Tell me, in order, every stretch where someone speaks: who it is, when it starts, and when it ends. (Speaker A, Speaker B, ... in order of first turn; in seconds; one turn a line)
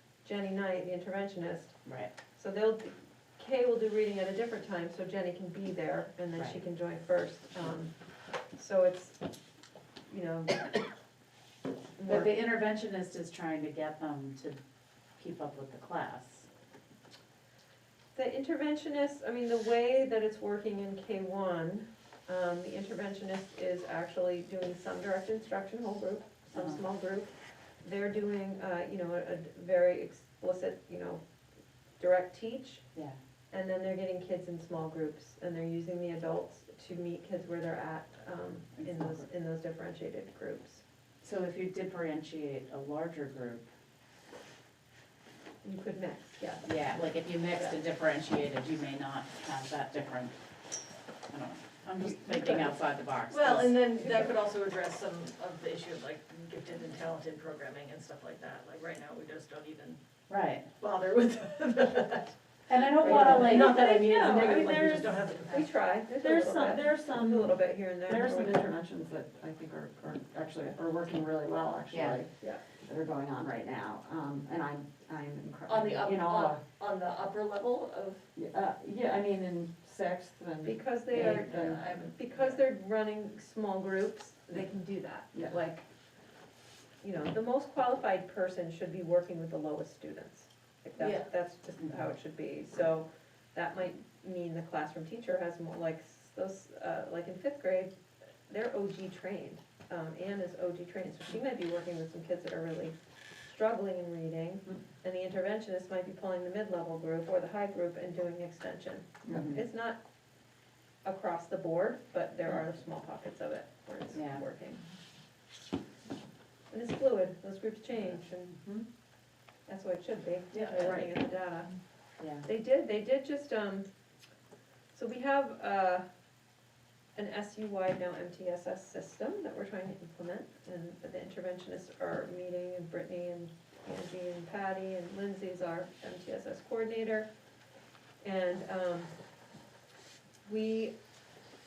Speaker A: 0.2-1.7
Speaker B: 1.8-2.1
Speaker A: 2.3-7.9
Speaker B: 6.3-6.6
Speaker A: 8.5-9.2
Speaker A: 10.1-10.7
Speaker A: 12.0-12.3
Speaker B: 12.1-14.6
Speaker B: 15.2-16.4
Speaker A: 18.1-27.3
Speaker B: 26.5-26.8
Speaker A: 27.8-31.2
Speaker A: 32.0-32.8
Speaker A: 33.5-40.8
Speaker B: 38.8-39.2
Speaker B: 41.2-43.7
Speaker A: 45.6-47.8
Speaker B: 46.6-50.4
Speaker B: 51.3-54.0
Speaker A: 52.2-52.7
Speaker C: 53.3-60.0
Speaker A: 53.8-54.5
Speaker B: 60.3-60.7
Speaker C: 60.8-62.4
Speaker B: 62.7-64.7
Speaker D: 63.0-65.2
Speaker A: 63.0-63.7
Speaker C: 63.1-65.6
Speaker A: 65.5-68.7
Speaker D: 66.2-72.3
Speaker B: 71.9-72.2
Speaker D: 72.8-76.6
Speaker C: 75.7-78.3
Speaker D: 78.3-81.8
Speaker A: 80.6-85.8
Speaker C: 81.3-82.6
Speaker A: 87.0-97.9
Speaker C: 91.0-91.3
Speaker A: 98.5-102.9
Speaker A: 103.5-110.0
Speaker D: 109.2-109.6
Speaker B: 109.3-109.6
Speaker A: 111.0-114.8
Speaker B: 114.1-114.4
Speaker A: 116.7-118.6
Speaker A: 119.7-121.7
Speaker D: 120.8-121.1
Speaker B: 122.2-122.5
Speaker A: 122.4-123.9
Speaker A: 124.9-126.0
Speaker A: 127.1-137.3
Speaker A: 138.2-139.1
Speaker A: 140.4-140.9